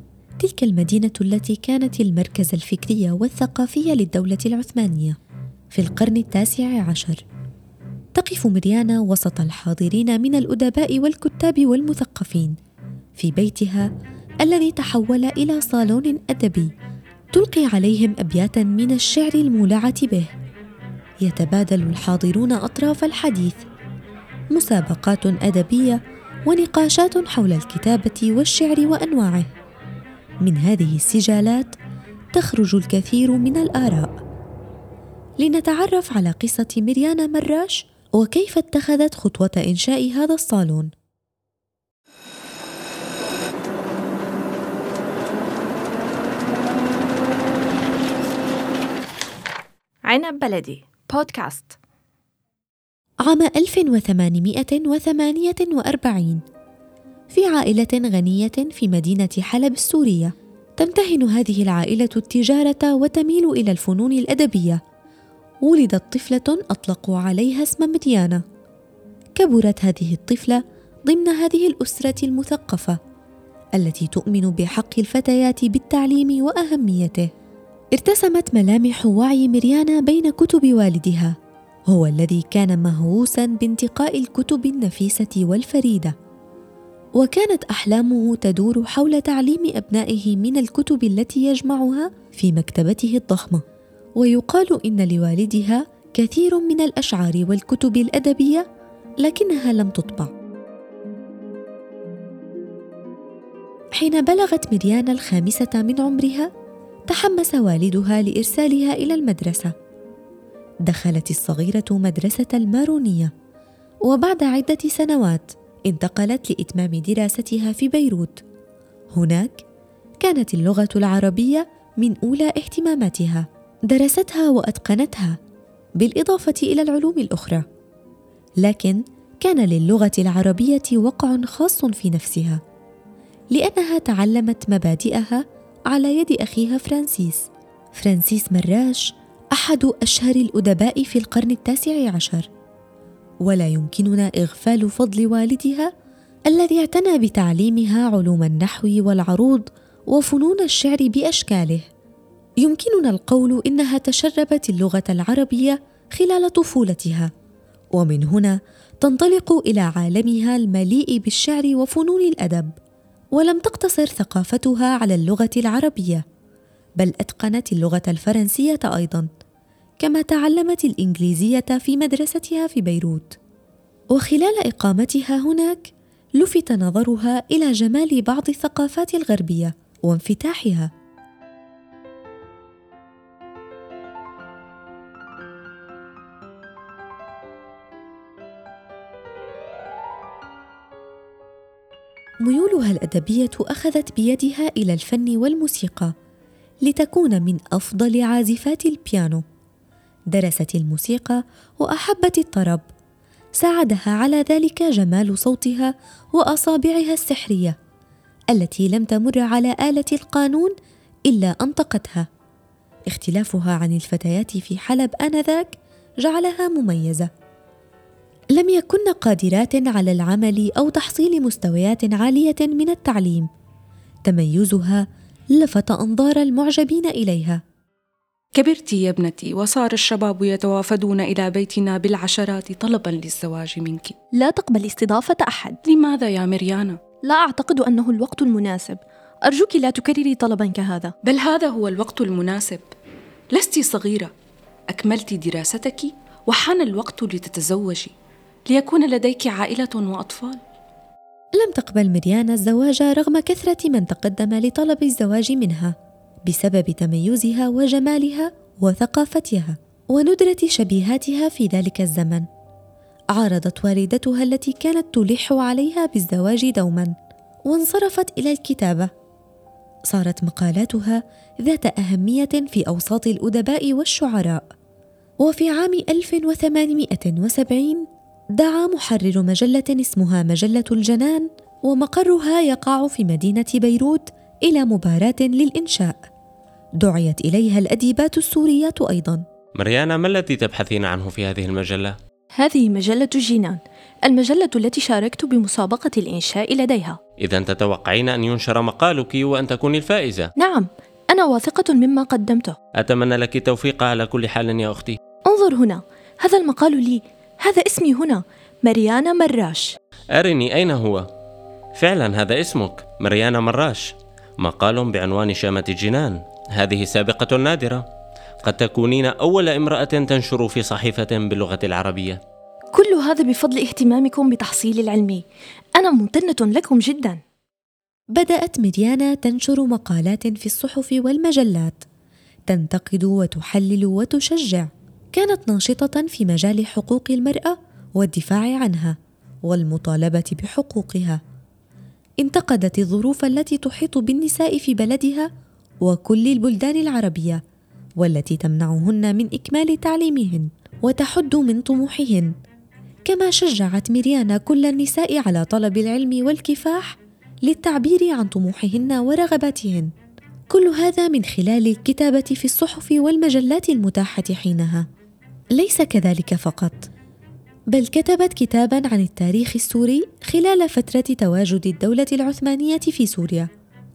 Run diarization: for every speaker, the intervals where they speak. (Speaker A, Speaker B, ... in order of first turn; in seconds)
Speaker A: 0.4-5.2, 5.7-7.2, 8.1-12.6, 13.2-13.9, 14.4-16.7, 17.3-20.3, 21.2-23.6, 24.5-29.5, 30.4-31.8, 32.3-34.1, 35.4-40.9, 53.2-56.4, 57.3-64.8, 65.6-68.4, 69.4-73.0, 73.8-77.3, 77.9-81.3, 81.9-86.1, 87.2-93.6, 94.2-98.7, 99.2-100.3, 104.0-106.5, 107.1-109.7, 110.8-113.3, 114.0-118.4, 119.1-119.6, 120.2-125.4, 126.0-127.6, 128.6-132.6, 133.5-142.5, 143.4-145.9, 146.5-151.9, 152.6-157.3, 157.9-162.7, 163.3-166.2, 167.0-169.3, 170.0-173.4, 174.1-180.9, 192.4-196.1, 196.8-199.4, 200.3-202.8, 203.6-207.8, 208.5-210.7, 211.3-212.3, 213.1-217.3, 218.5-223.5, 224.2-227.6, 251.6-262.4, 263.3-267.1, 267.7-269.1, 270.1-274.6, 275.4-286.2, 287.0-289.4, 328.3-332.0, 332.7-341.4, 342.4-345.5, 346.0-347.6, 348.2-352.5, 353.2-360.1, 360.7-365.1, 365.8-367.1, 367.9-373.7
Speaker B: 50.1-51.7, 234.4-235.8, 237.2-241.1, 292.6-297.2, 300.6-302.8, 305.5-309.9, 322.9-325.4, 326.0-327.4
Speaker C: 228.5-234.1, 235.8-237.0, 241.2-242.8, 243.5-244.3, 244.9-248.1, 248.7-250.6
Speaker D: 289.8-292.1, 297.4-300.5, 303.0-305.2, 310.3-311.3, 311.9-318.1, 318.6-322.4